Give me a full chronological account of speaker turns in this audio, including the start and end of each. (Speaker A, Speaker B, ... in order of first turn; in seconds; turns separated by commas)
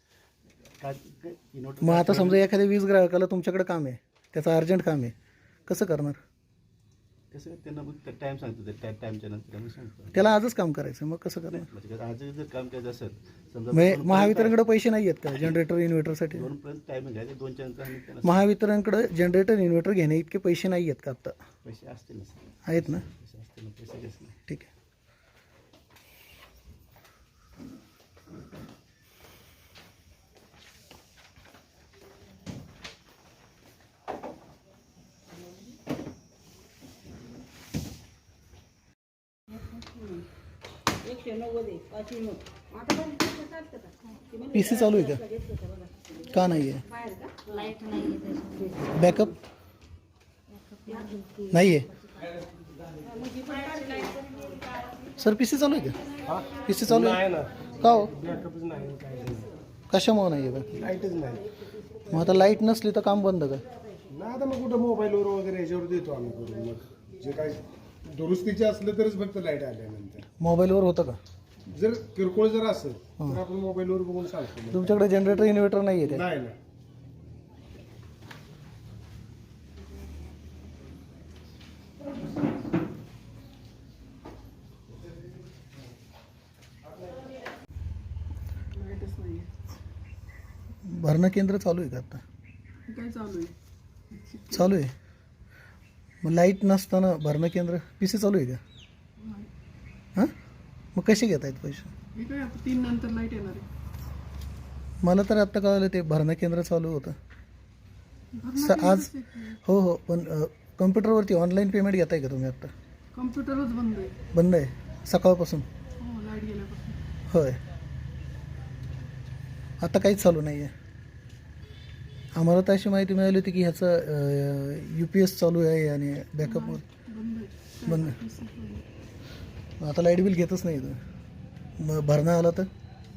Speaker A: 0.8-2.5, Speaker B: 1.8-5.1, Speaker B: 5.7-6.2, Speaker A: 7.3-10.3, Speaker B: 10.1-11.7, Speaker A: 11.5-14.6, Speaker B: 13.7-16.5, Speaker A: 16.3-18.5, Speaker B: 18.2-21.3, Speaker A: 21.6-24.4, Speaker B: 22.7-23.1, Speaker B: 44.5-45.2, Speaker B: 46.3-46.8, Speaker B: 49.0-49.3, Speaker B: 51.5-51.9, Speaker B: 55.2-56.0, Speaker C: 56.3-57.5, Speaker B: 56.7-57.2, Speaker B: 57.8-58.1, Speaker C: 58.1-59.5, Speaker B: 59.9-60.7, Speaker C: 60.7-61.4, Speaker B: 62.1-63.6, Speaker C: 64.1-67.6, Speaker C: 68.1-70.2, Speaker B: 70.4-71.2, Speaker C: 71.8-74.9, Speaker B: 74.7-76.3, Speaker C: 76.2-76.6, Speaker D: 88.8-89.5, Speaker B: 90.8-92.2, Speaker D: 92.9-93.5, Speaker D: 94.1-94.7, Speaker B: 94.5-94.9, Speaker B: 96.2-98.6, Speaker D: 99.2-99.5, Speaker B: 101.0-101.9, Speaker D: 102.2-103.7, Speaker B: 105.0-107.2, Speaker D: 108.4-109.6, Speaker B: 108.6-109.1, Speaker B: 109.6-112.7, Speaker D: 113.2-114.2, Speaker B: 114.3-115.7, Speaker D: 116.0-117.0, Speaker B: 117.3-117.6, Speaker B: 119.8-120.7, Speaker B: 122.4-126.8, Speaker D: 126.4-128.8, Speaker B: 127.9-128.2, Speaker B: 129.8-131.0, Speaker B: 131.8-132.7